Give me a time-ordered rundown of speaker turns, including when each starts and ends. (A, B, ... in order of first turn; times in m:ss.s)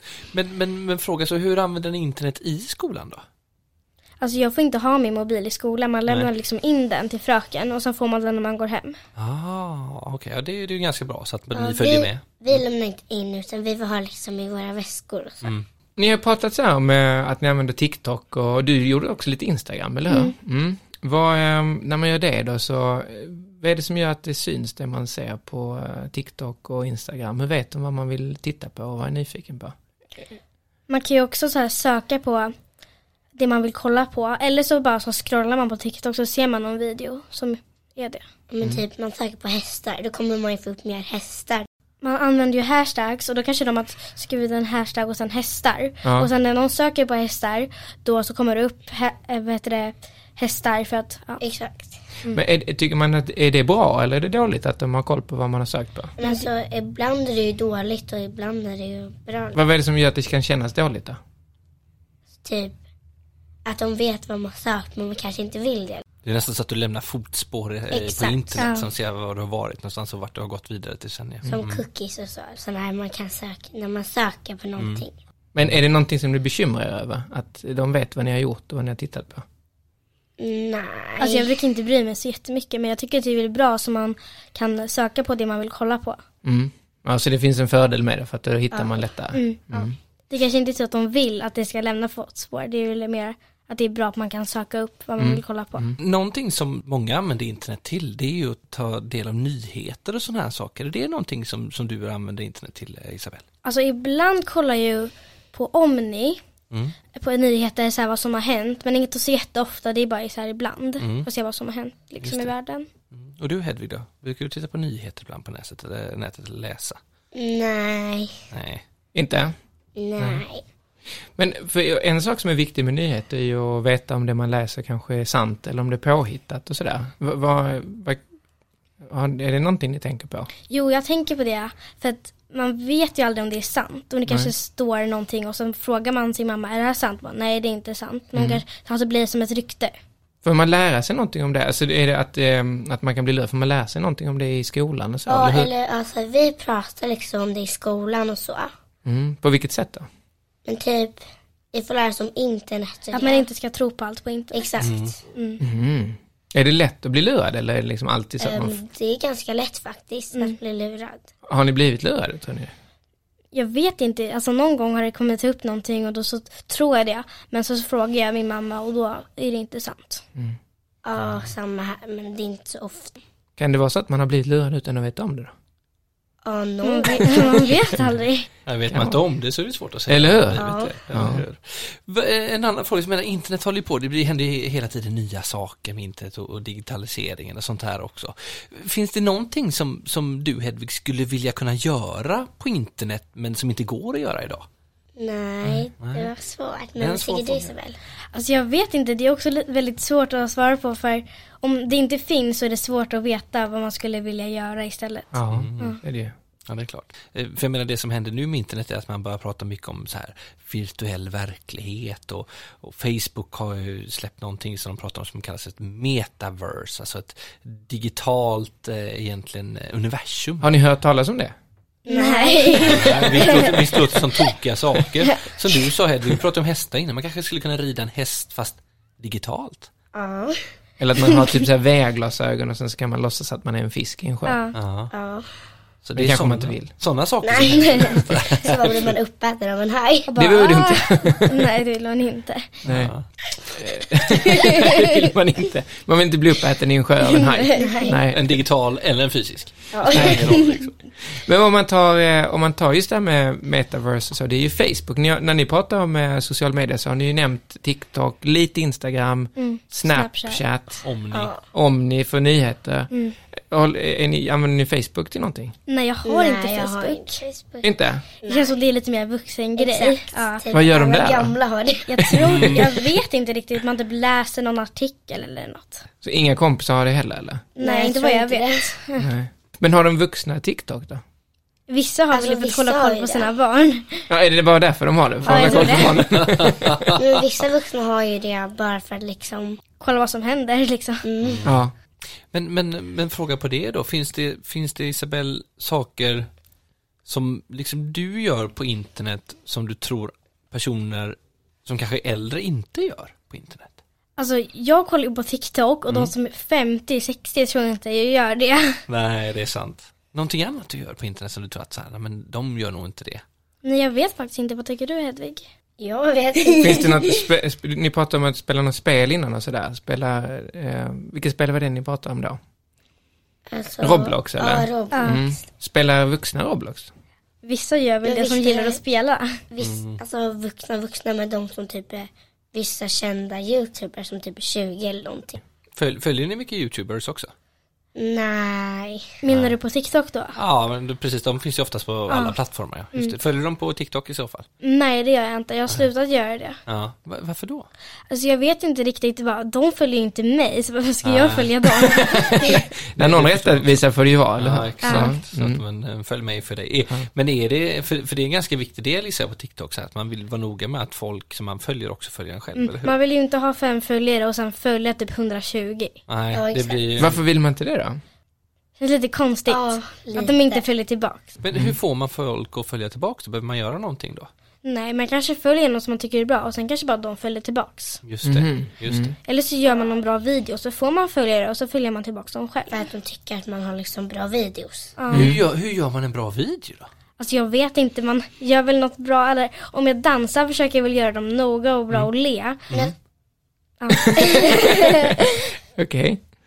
0:00.3-0:03.2 A
0:04.2-0:09.0 B
0:09.2-0:12.6 A
0:11.5-0:15.5 C
0:16.0-0:29.7 D
0:30.9-0:32.5 B
0:33.4-0:38.2 B
0:38.5-0:41.7 C
0:42.0-0:51.4 B
0:46.0-0:46.3 D
0:51.4-0:51.9 C
0:52.3-0:56.1 D
0:56.2-0:59.6 C
0:59.5-1:01.2 D
1:02.4-1:02.8 C
1:03.6-1:06.0 C
1:06.2-1:11.8 A
1:07.9-1:08.7 C
1:08.6-1:08.9 B
1:11.5-1:15.1 C
1:14.8-1:15.0 A
1:15.5-1:19.4 D
1:20.4-1:21.5 C
1:21.2-1:26.2 B
1:26.4-1:29.9 D
1:29.3-1:35.8 B
1:35.2-1:36.0 D
1:36.0-1:43.4 A
1:43.6-1:46.4 B
1:47.1-1:52.9 B
1:51.0-1:51.3 A
1:52.2-1:52.5 A
1:53.1-1:57.0 A
1:57.3-1:58.4 C
1:58.5-1:58.8 A
1:59.1-1:59.5 D
2:00.0-2:00.6 C
2:00.2-2:00.4 D
2:01.4-2:08.2 D
2:09.0-2:10.5 D
2:10.7-2:19.9 B
2:18.3-2:18.6 D
2:20.4-2:25.7 D
2:25.3-2:28.7 C
2:29.0-2:30.1 D
2:30.6-2:31.2 C
2:31.7-2:33.4 C
2:33.1-2:34.7 B
2:34.5-2:35.2 C
2:34.8-2:35.1 A
2:35.3-2:35.6 B
2:35.6-2:38.8 D
2:38.4-2:41.3 C
2:41.5-2:42.7 D
2:43.5-2:50.2 B
2:51.0-2:53.2 C
2:53.6-2:55.5 D
2:56.4-2:57.8 C
2:56.8-2:58.5 B
2:58.6-3:14.6 A
2:58.9-2:59.2 D
3:00.1-3:01.4 D
3:00.6-3:00.9 C
3:15.2-3:18.0 C
3:16.0-3:16.3 A
3:17.0-3:17.7 A
3:18.3-3:26.0 B
3:25.3-3:26.3 D
3:25.5-3:26.0 A
3:26.7-3:40.7 A
3:40.6-3:41.5 D
3:42.0-3:43.6 B
3:42.1-3:43.8 C
3:42.8-3:49.9 A
3:50.1-3:50.6 C
3:51.0-3:54.6 D
3:54.4-3:54.7 B
3:54.7-3:55.1 A
3:55.1-3:55.5 C
3:56.0-3:59.1 A
3:56.2-3:56.9 D
3:57.4-4:00.4 C
4:00.3-4:02.8 B
4:00.4-4:01.6 D
4:02.8-4:03.1 D
4:02.8-4:03.2 A
4:03.7-4:08.6 D
4:07.4-4:08.0 B
4:07.8-4:08.2 C
4:08.3-4:11.0 A
4:09.9-4:10.7 C
4:10.1-4:10.7 D
4:11.3-4:21.0 D
4:19.6-4:20.6 B
4:21.0-4:21.5 A
4:21.3-4:21.6 C
4:21.7-4:25.7 D
4:23.1-4:23.4 B
4:25.9-4:27.4 B
4:26.2-4:28.7 C
4:27.8-4:28.2 D
4:28.5-4:30.6 B
4:29.8-4:32.4 C
4:30.7-4:31.5 D
4:32.1-4:36.0 B
4:32.4-4:32.8 D
4:32.5-4:32.8 A
4:36.2-4:37.7 D
4:37.8-4:38.9 C
4:37.8-4:39.3 B
4:39.2-4:41.2 D
4:41.9-4:44.3 B
4:42.3-4:43.5 C
4:44.3-4:47.1 D
4:45.4-4:46.1 B
4:45.5-4:46.1 C
4:45.6-4:47.2 A
4:47.2-4:49.8 C
4:50.0-4:51.2 B
4:51.2-4:51.7 C
4:51.4-4:51.8 A
4:51.6-4:51.9 D
4:52.5-4:56.5 A
4:57.2-5:04.0 A
5:04.4-5:09.0 B
5:09.1-5:13.4 A
5:13.8-5:15.6 B
5:16.0-5:17.4 C
5:16.8-5:22.6 D
5:23.7-5:25.6 C
5:24.0-5:27.1 D
5:25.1-5:25.4 B
5:27.6-5:29.5 B
5:28.2-5:29.0 C
5:29.7-5:35.6 C
5:29.8-5:30.2 A
5:36.0-5:37.5 A
5:38.2-5:39.3 C
5:39.4-5:40.6 B
5:39.5-5:39.7 A
5:40.6-5:44.7 A
5:42.3-5:42.6 B
5:44.8-5:46.8 B
5:46.8-5:47.9 A
5:48.3-5:52.8 B
5:51.2-5:52.2 A
5:52.3-5:55.8 D
5:53.1-5:54.0 A
5:54.6-6:03.2 A
5:55.0-5:55.3 B
6:02.8-6:06.1 B
6:06.3-6:07.4 A
6:06.5-6:07.0 C
6:07.2-6:08.2 D
6:09.0-6:11.5 B
6:09.7-6:10.8 C
6:11.6-6:14.5 A
6:14.8-6:18.2 B
6:18.2-6:19.3 A
6:18.4-6:19.3 D
6:19.4-6:23.0 B
6:22.9-6:25.1 C
6:25.2-6:25.5 B
6:25.3-6:27.1 A
6:25.3-6:25.6 D
6:27.4-6:32.8 B
6:34.0-6:34.9 B
6:34.4-6:35.3 C
6:36.0-6:36.4 D